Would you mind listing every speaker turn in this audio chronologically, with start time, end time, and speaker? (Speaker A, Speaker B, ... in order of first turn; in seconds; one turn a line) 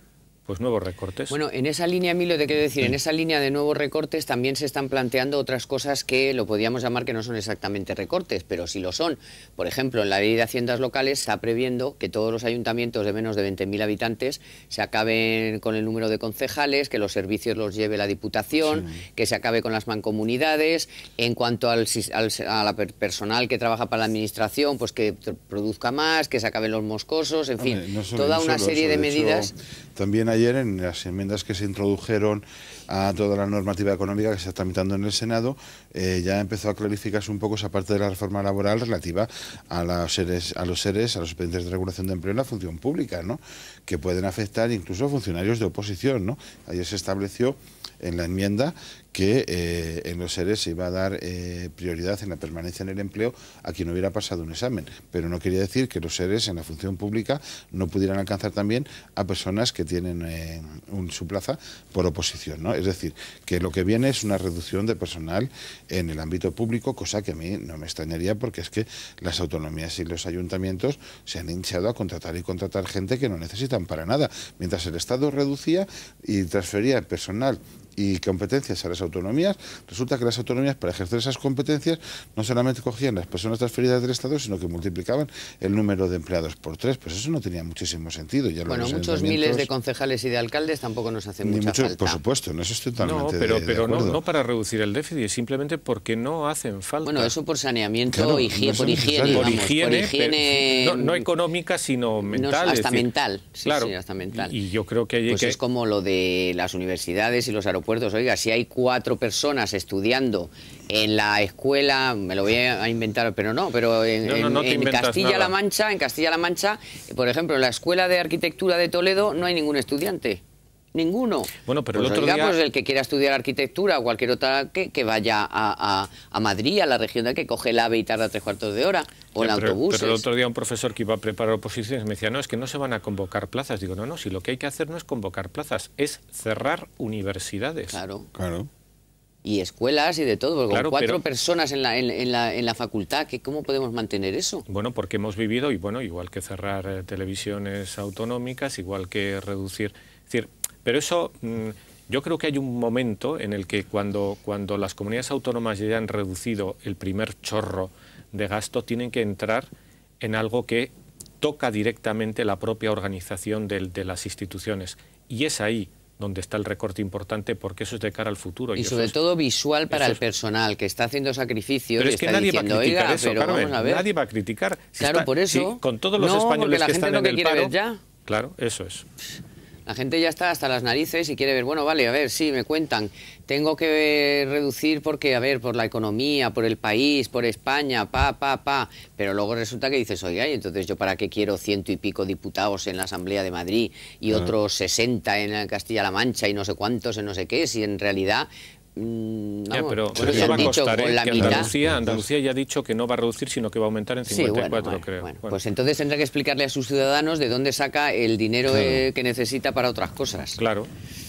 Speaker A: 0.5-1.4
Speaker B: 1.3-29.5
Speaker C: 18.7-18.9
Speaker C: 27.6-89.7
Speaker B: 88.7-92.2
Speaker C: 91.4-94.2
Speaker A: 93.0-97.3
Speaker B: 97.0-101.3
Speaker C: 98.1-99.6
Speaker A: 99.3-103.1
Speaker B: 102.2-104.5
Speaker A: 103.6-105.6
Speaker B: 105.3-120.4
Speaker A: 114.2-115.5
Speaker B: 120.9-130.2
Speaker A: 121.7-122.6
Speaker A: 129.4-138.0
Speaker B: 137.9-138.3
Speaker C: 138.3-138.7
Speaker B: 139.4-144.7
Speaker A: 140.7-141.2
Speaker A: 144.7-159.7
Speaker A: 160.2-169.2
Speaker B: 168.8-174.1
Speaker A: 169.9-170.2
Speaker A: 172.0-177.7
Speaker B: 175.0-178.0
Speaker A: 178.3-179.1
Speaker B: 179.9-201.7
Speaker A: 199.7-205.6
Speaker C: 200.2-200.8
Speaker C: 201.4-202.3
Speaker B: 204.3-210.6
Speaker C: 208.7-209.1
Speaker A: 210.6-210.9